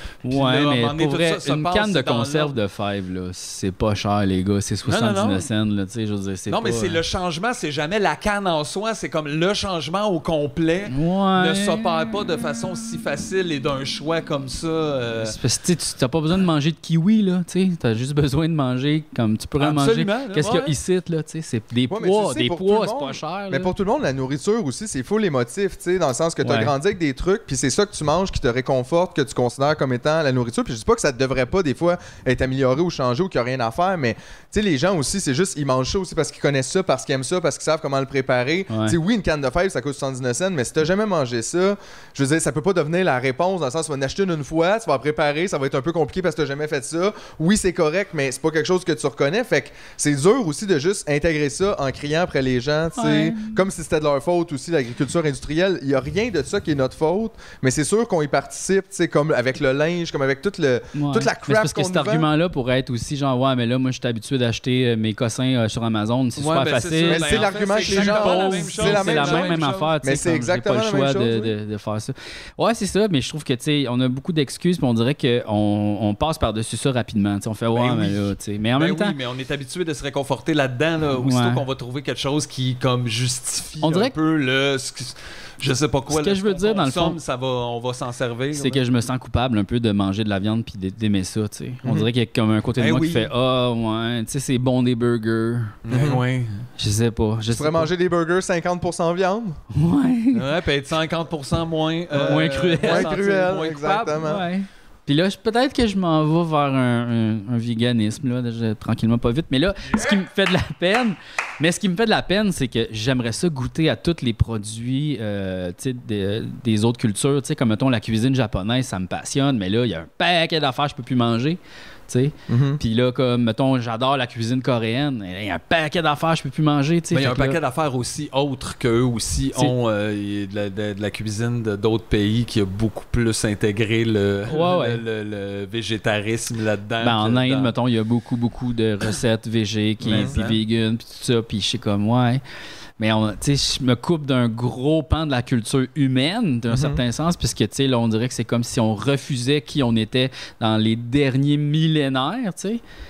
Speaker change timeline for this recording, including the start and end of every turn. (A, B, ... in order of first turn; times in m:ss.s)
0:00.2-0:07.0 A
0:00.3-0:02.5 B
0:04.8-0:05.4 B
0:06.5-0:15.4 B
0:10.9-0:11.8 A
0:15.2-0:23.7 A
0:19.6-0:20.7 B
0:21.9-1:02.3 C
0:26.4-0:26.7 A
0:38.7-0:39.0 A
0:53.0-0:53.6 A
1:00.9-1:19.2 A
1:06.4-1:09.9 B
1:07.0-1:11.5 C
1:17.7-1:28.8 B
1:21.2-1:21.6 A
1:23.8-1:24.1 A
1:26.1-1:27.2 A
1:28.5-1:35.7 A
1:32.8-1:33.3 B
1:35.8-1:36.6 B
1:35.9-1:36.2 C
1:36.8-1:37.9 A
1:37.5-1:39.6 C
1:39.7-1:40.4 A
1:40.3-1:44.3 B
1:42.1-1:44.4 C
1:42.2-1:43.1 A
1:44.2-2:07.6 A
2:02.5-2:02.8 C
2:07.1-2:17.7 B
2:14.5-2:15.0 A
2:17.0-2:22.4 A
2:20.0-2:20.3 C
2:20.0-2:20.6 B
2:23.0-2:32.8 A
2:26.7-2:27.0 C